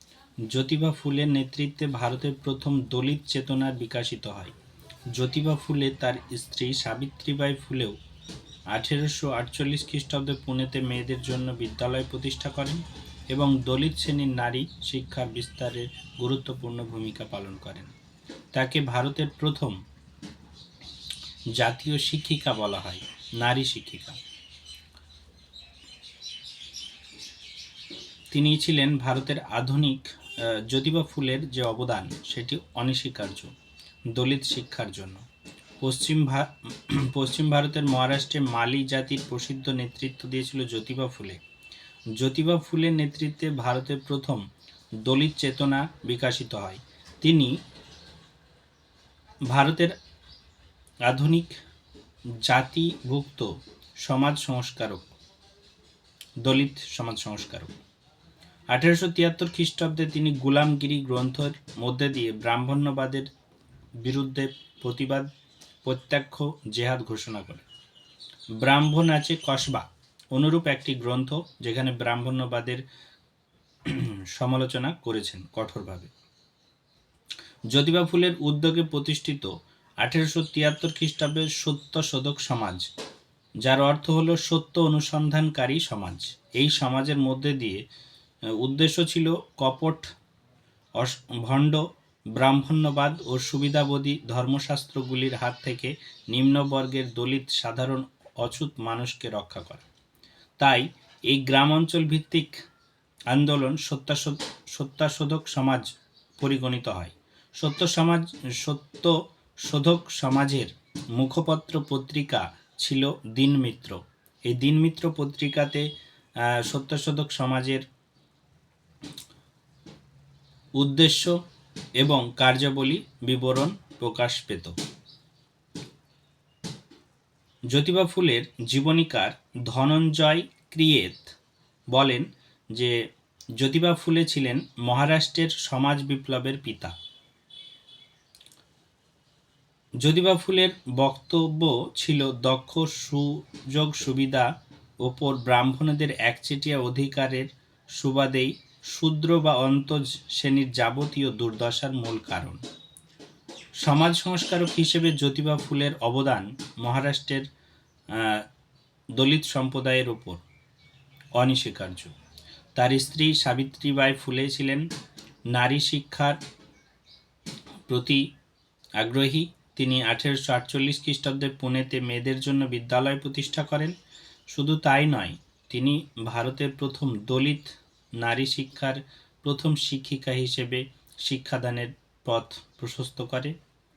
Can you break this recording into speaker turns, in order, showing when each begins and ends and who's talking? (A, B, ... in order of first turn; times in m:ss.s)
0:00.5-0:04.5 A
0:05.1-0:07.9 A
0:08.7-0:17.9 A
0:18.5-0:19.8 A
0:21.6-0:24.2 A
0:28.3-0:33.5 A
0:34.1-0:35.2 A
0:35.8-0:41.4 A
0:42.2-0:44.4 A
0:45.0-0:47.5 A
0:49.5-0:49.9 A
0:51.1-0:51.6 A
0:52.4-0:53.5 A
0:54.0-0:55.1 A
0:56.4-0:57.7 A
0:58.7-1:03.3 A
1:04.0-1:05.3 A
1:05.8-1:07.6 A
1:08.6-1:12.8 A
1:13.8-1:16.1 A
1:17.7-1:19.5 A
1:20.0-1:22.8 A
1:23.6-1:27.8 A
1:28.5-1:30.1 A
1:31.0-1:31.8 A
1:32.3-1:39.8 A
1:40.6-1:42.6 A
1:43.3-1:45.9 A
1:46.4-1:55.8 A
1:56.5-1:57.8 A
2:00.8-2:01.4 A
2:02.0-2:04.7 A
2:07.7-2:11.3 A
2:11.9-2:12.9 A
2:13.6-2:16.9 A
2:20.0-2:24.5 A
2:25.0-2:32.6 A
2:33.8-2:37.5 A
2:38.1-2:38.4 A
2:39.2-2:40.4 A
2:41.4-2:42.1 A
2:42.8-2:44.8 A
2:45.5-2:46.4 A
2:47.9-2:48.2 A
2:49.0-2:53.9 A
2:54.5-3:03.5 A